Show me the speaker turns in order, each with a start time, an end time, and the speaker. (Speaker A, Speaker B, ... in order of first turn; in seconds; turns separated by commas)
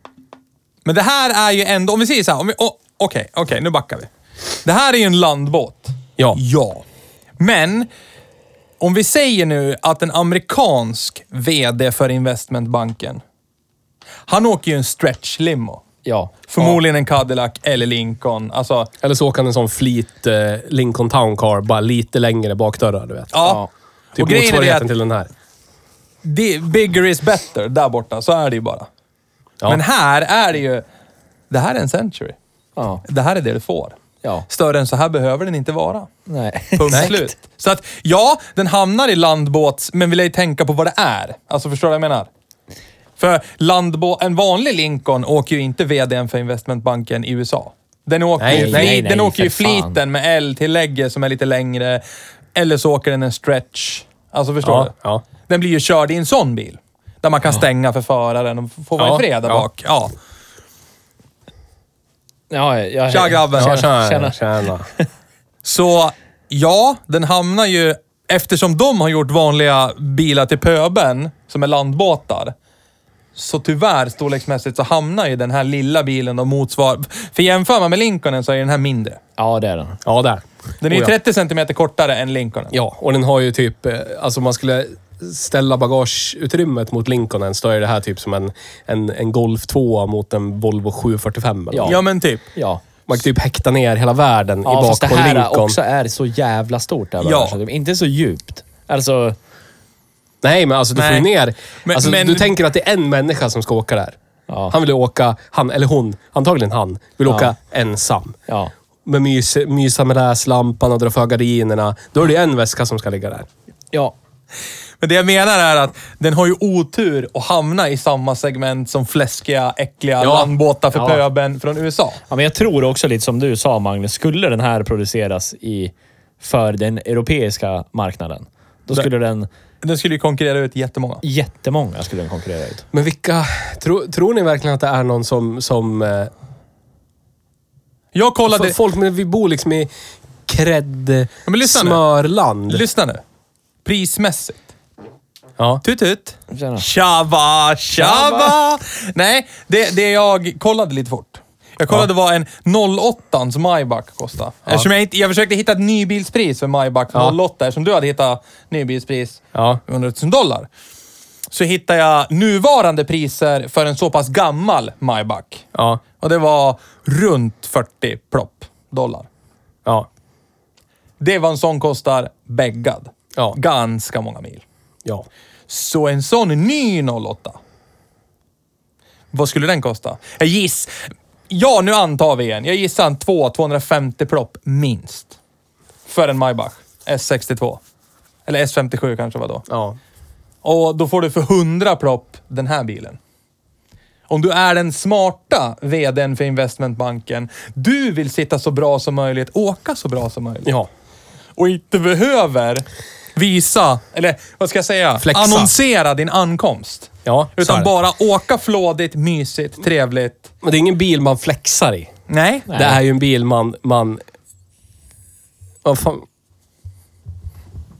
Speaker A: 0.8-4.1, Speaker A: 4.6-6.8, Speaker A: 7.4-7.9, Speaker A: 8.8-13.2, Speaker A: 14.3-15.8, Speaker B: 16.0-16.8, Speaker A: 16.5-18.9, Speaker C: 19.0-23.3, Speaker A: 23.3-23.6, Speaker B: 23.4-23.7, Speaker A: 24.1-24.9, Speaker C: 24.1-25.3, Speaker A: 26.2-28.9, Speaker A: 29.6-30.8, Speaker A: 31.5-32.4, Speaker B: 32.8-33.0, Speaker A: 33.0-34.0, Speaker A: 34.5-36.1, Speaker B: 36.3-37.3, Speaker A: 36.8-42.3, Speaker A: 43.2-52.0, Speaker C: 48.4-49.0, Speaker B: 48.5-50.0, Speaker A: 52.5-54.9, Speaker C: 54.6-55.2, Speaker A: 55.4-60.1, Speaker C: 59.0-59.6, Speaker B: 62.5-64.4, Speaker A: 63.1-63.8, Speaker C: 63.6-64.9, Speaker A: 65.6-72.5, Speaker A: 73.3-79.2, Speaker B: 79.4-80.0, Speaker C: 80.0-81.1, Speaker A: 80.8-82.7, Speaker C: 82.7-92.0, Speaker B: 91.7-92.0, Speaker A: 91.8-92.4, Speaker B: 92.5-92.8, Speaker C: 93.1-95.8, Speaker B: 94.6-99.3, Speaker A: 97.2-97.6, Speaker C: 100.4-104.2, Speaker A: 101.0-101.3, Speaker A: 101.8-102.5, Speaker B: 104.5-104.7, Speaker C: 104.7-108.4, Speaker B: 107.2-107.5, Speaker C: 109.0-113.5, Speaker A: 115.0-122.2, Speaker C: 120.2-120.5, Speaker B: 120.9-121.2, Speaker B: 122.3-129.5, Speaker A: 129.8-131.2, Speaker B: 131.2-132.8, Speaker C: 132.9-136.3, Speaker A: 138.1-138.8, Speaker C: 138.5-139.9, Speaker C: 140.4-142.8, Speaker A: 141.4-142.0, Speaker A: 142.7-143.2, Speaker A: 143.8-144.6, Speaker C: 145.6-145.8, Speaker A: 145.8-160.7, Speaker B: 146.5-146.8, Speaker B: 147.9-148.6, Speaker C: 159.5-159.8, Speaker A: 161.5-165.7, Speaker C: 165.7-166.0, Speaker A: 166.2-169.3, Speaker A: 171.2-174.6, Speaker A: 175.7-177.6, Speaker A: 179.3-185.3, Speaker A: 186.1-187.8, Speaker A: 188.4-189.6, Speaker C: 189.7-190.0, Speaker A: 190.6-193.2, Speaker A: 194.3-200.7, Speaker A: 201.6-202.8, Speaker A: 203.3-210.5, Speaker C: 205.2-205.7, Speaker C: 207.2-207.9, Speaker C: 210.6-212.1, Speaker A: 212.3-212.7, Speaker B: 212.7-213.0, Speaker C: 212.7-214.2, Speaker C: 215.8-216.2